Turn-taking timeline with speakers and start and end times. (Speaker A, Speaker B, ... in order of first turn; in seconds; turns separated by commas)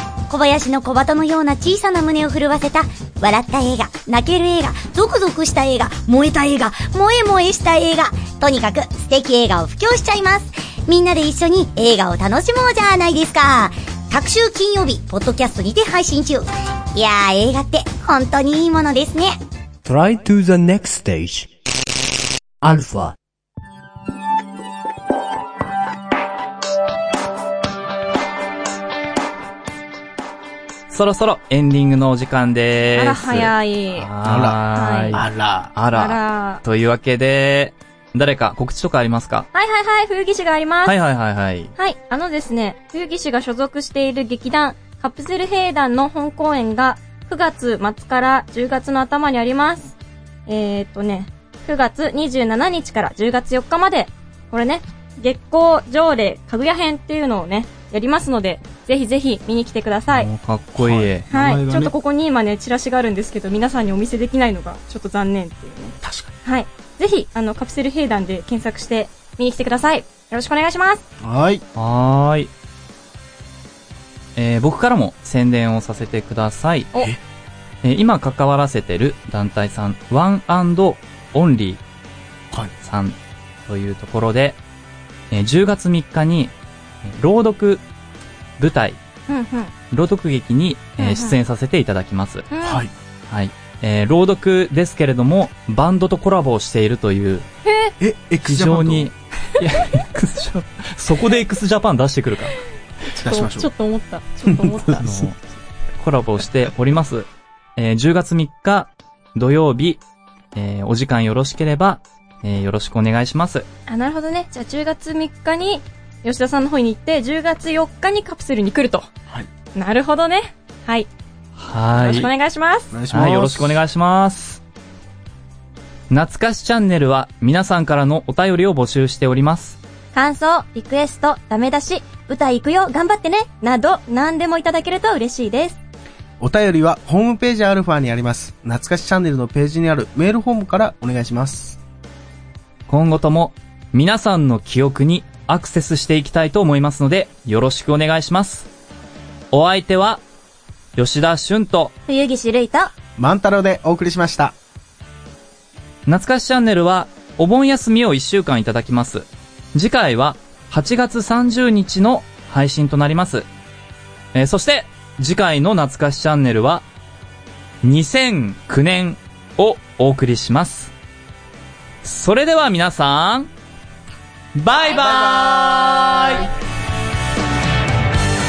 Speaker A: 0.3-19.4, Speaker B: 19.9-21.5, Speaker B: 22.6-23.1, Speaker C: 30.9-39.5, Speaker D: 33.0-34.1, Speaker E: 34.2-35.7, Speaker D: 34.7-35.1, Speaker D: 35.9-36.6, Speaker D: 39.5-41.0, Speaker C: 40.9-41.7, Speaker D: 41.8-50.0, Speaker D: 50.5-60.3, Speaker C: 60.1-61.3, Speaker E: 60.8-62.0, Speaker D: 61.3-71.0, Speaker E: 66.0-66.3, Speaker E: 71.2-71.6, Speaker C: 71.8-72.5, Speaker C: 74.4-76.9, Speaker E: 77.0-77.2, Speaker C: 77.8-81.8, Speaker C: 82.8-84.6, Speaker C: 85.3-86.5, Speaker C: 87.0-87.8, Speaker C: 88.6-89.0, Speaker D: 89.3-89.7, Speaker C: 89.9-92.5, Speaker D: 91.0-91.4, Speaker D: 92.5-92.8, Speaker E: 92.6-92.9, Speaker C: 93.3-97.5, Speaker D: 97.6-97.9, Speaker E: 98.0-99.1, Speaker C: 98.4-102.5, Speaker D: 103.1-105.1, Speaker E: 103.2-103.7, Speaker E: 104.5-105.3, Speaker C: 105.0-105.4, Speaker C: 106.0-110.0, Speaker C: 110.5-113.7, Speaker D: 113.9-119.1, Speaker D: 119.8-121.1, Speaker C: 121.6-122.3, Speaker D: 122.0-122.9, Speaker E: 122.9-123.8, Speaker C: 123.1-124.6, Speaker C: 126.1-129.8, Speaker F: 130.1-135.8, Speaker E: 136.4-141.8, Speaker C: 142.9-148.7, Speaker C: 149.5-150.2, Speaker C: 151.0-151.9, Speaker F: 152.1-152.9, Speaker E: 153.2-154.6, Speaker C: 156.1-163.5, Speaker C: 164.3-166.9, Speaker C: 167.8-170.9, Speaker C: 172.0-173.5, Speaker C: 174.6-176.5